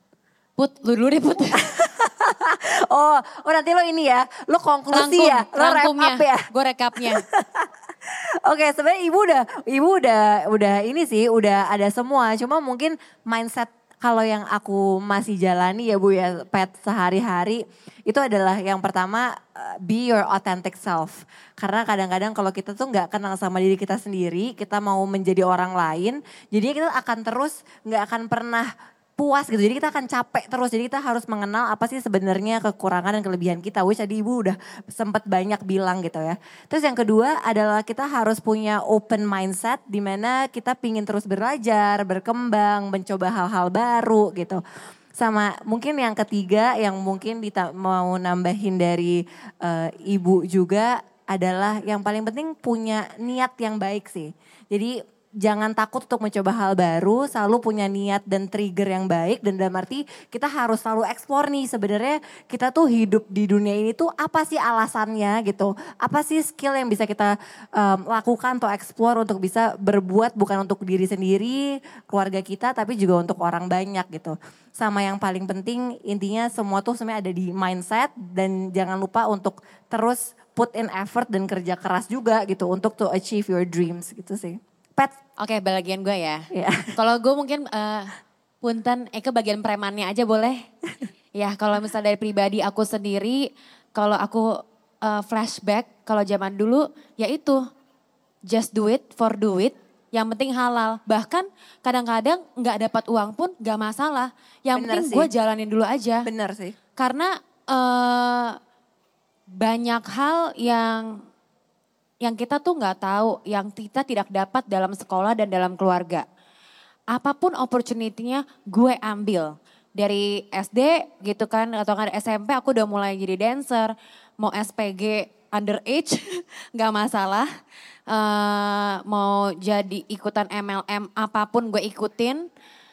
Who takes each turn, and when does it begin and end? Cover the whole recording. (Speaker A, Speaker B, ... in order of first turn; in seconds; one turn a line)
Speaker A: 0.6-1.7
Speaker B: 1.5-6.4
Speaker A: 4.9-7.2
Speaker B: 7.0-44.6
Speaker B: 45.2-85.2
Speaker A: 85.4-90.6
Speaker B: 86.5-86.9
Speaker A: 91.3-97.6
Speaker A: 98.5-106.3
Speaker B: 104.8-105.3
Speaker B: 106.2-106.8
Speaker A: 107.0-108.6
Speaker A: 109.5-111.2
Speaker A: 112.2-116.2
Speaker A: 117.1-127.5
Speaker A: 128.1-132.5